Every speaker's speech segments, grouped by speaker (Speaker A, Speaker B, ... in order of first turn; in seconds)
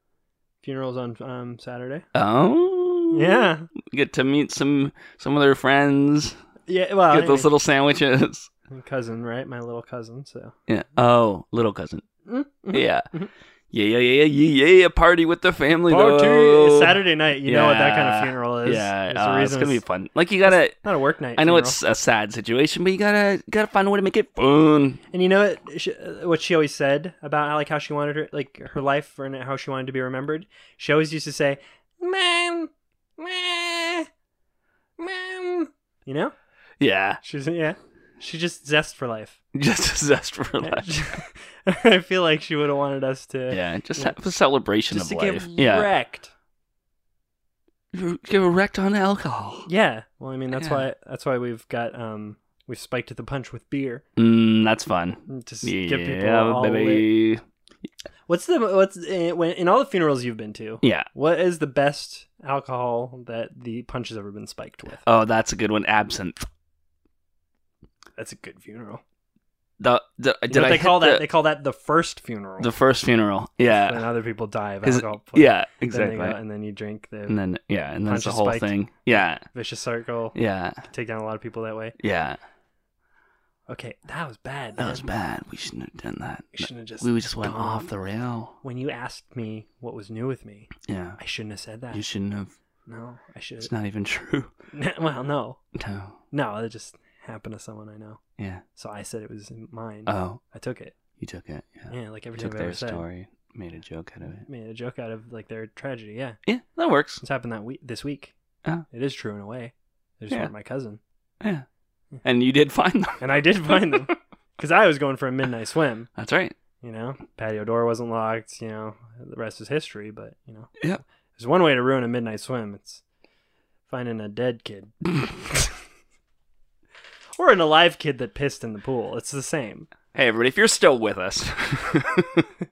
Speaker A: 0.6-2.0, 3.1-3.7, 6.7-7.5, 8.7-10.6, 12.3-13.3, 15.9-19.8, 20.5-21.8, 25.1-34.1, 35.0-36.4, 37.2-39.4, 40.6-44.1, 44.9-46.3, 49.7-54.0, 55.3-57.1, 58.3-65.0, 68.2-69.0, 70.5-72.7, 73.7-77.4, 78.0-82.0, 83.7-85.1, 86.5-87.9, 88.6-92.0, 92.9-93.7, 94.7-95.6, 96.3-98.2, 98.8-100.9, 101.9-103.0, 104.4-106.4, 107.2-108.3, 108.9-111.0, 113.2-116.1, 116.8-120.8, 121.4-123.0, 123.9-125.7, 127.4-129.9
Speaker B: 2.1-6.4, 7.1-8.5, 10.7-12.0, 12.7-13.1, 13.7-20.8, 21.4-25.0, 36.8-37.2, 39.5-40.9, 43.5-45.9, 47.9-49.7, 50.5-50.8, 54.2-57.4, 60.8-61.1, 65.0-66.5, 69.8-71.3, 72.6-74.0, 74.8-76.4, 77.3-79.5, 80.3-80.9, 82.0-82.4, 84.8-88.5, 90.9-91.2, 91.9-92.5, 93.6-94.5, 95.8-96.2, 98.4-98.6, 100.1-100.4, 101.2-104.5, 106.5-107.2, 112.2-114.0, 116.2-116.5, 130.1-132.5